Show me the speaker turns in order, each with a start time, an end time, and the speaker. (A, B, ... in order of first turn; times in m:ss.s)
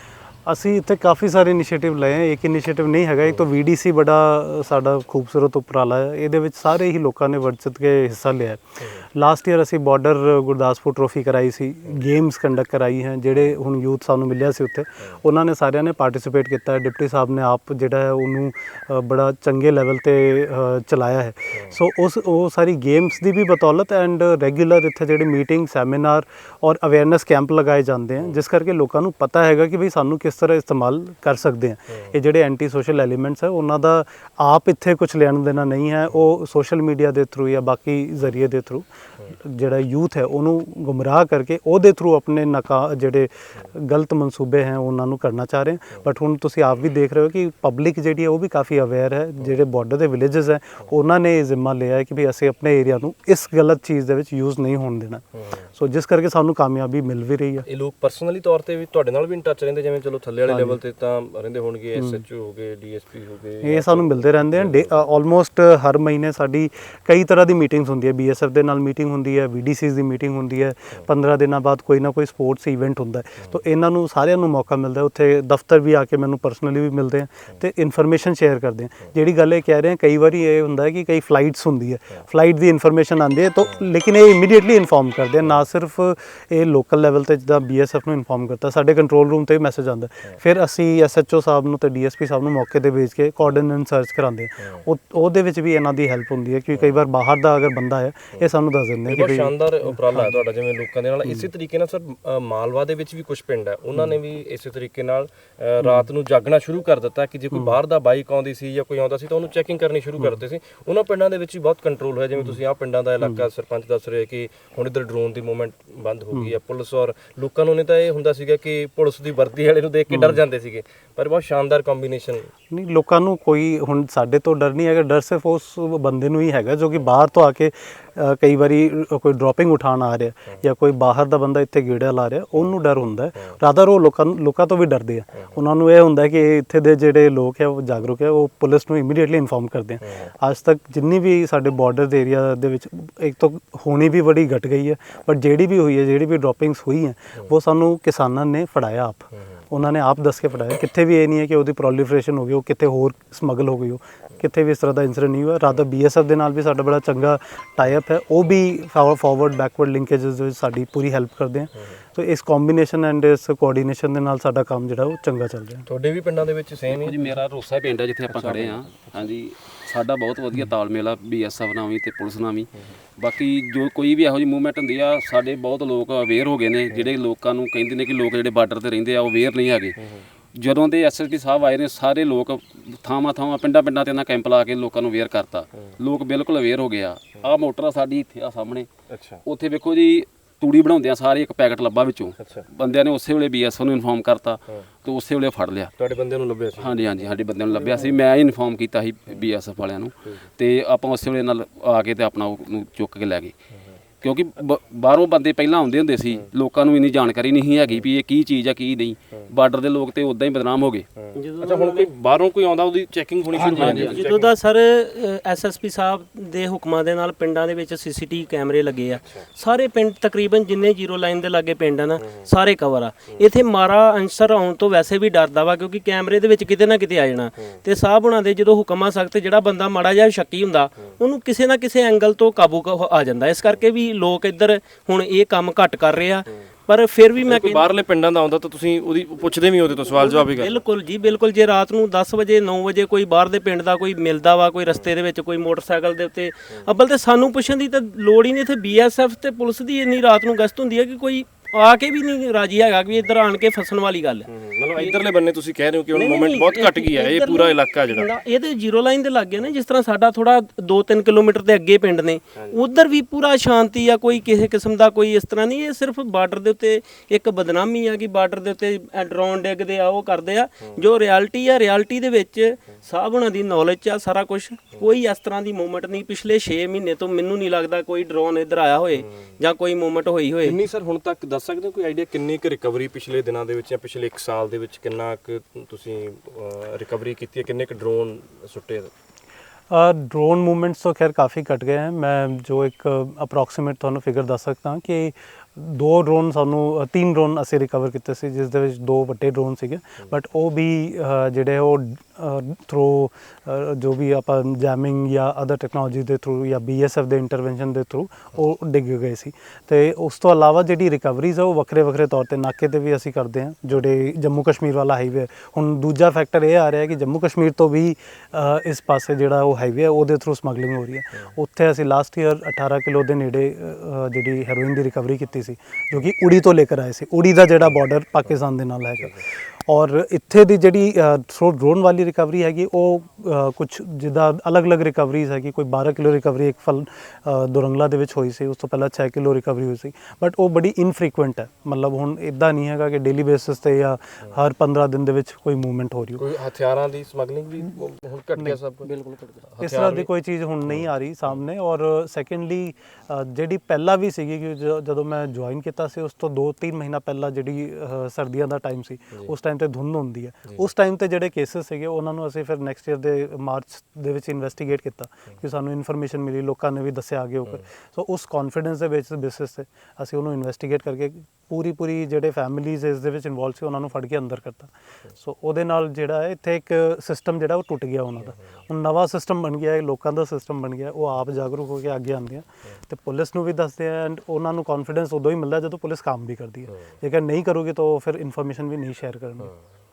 0:00.4-0:08.6 A
0:09.1-0:55.2 A
0:55.8-0:57.7 A
0:57.6-1:05.0 B
1:00.5-1:00.8 A
1:02.0-1:02.2 A
1:03.6-1:40.4 A
1:39.1-2:02.5 B
2:00.1-2:00.4 A
2:02.7-2:45.8 A
2:20.0-2:20.3 B
2:45.9-2:47.4 B
2:46.9-3:00.0 C
2:48.3-2:49.2 B
3:00.0-3:00.2 B
3:00.6-3:08.9 C
3:09.1-3:09.4 B
3:09.4-3:15.9 C
3:12.4-3:12.6 B
3:16.0-3:18.1 B
3:16.8-3:23.5 C
3:20.2-3:20.5 B
3:24.2-3:31.1 C
3:31.2-3:34.5 B
3:31.3-3:32.1 D
3:33.5-3:34.3 C
3:33.8-3:57.9 D
3:39.2-3:39.5 B
3:42.2-3:42.5 B
3:57.4-4:00.8 B
4:00.0-4:15.2 D
4:14.5-4:18.3 B
4:16.1-4:40.8 D
4:39.1-4:39.5 B
4:40.6-4:49.1 B
4:49.9-5:29.3 A
5:29.9-5:46.4 A
5:46.4-5:49.1 B
5:49.2-5:49.4 D
5:49.7-5:50.3 B
5:49.8-6:29.7 A
5:50.9-5:51.6 B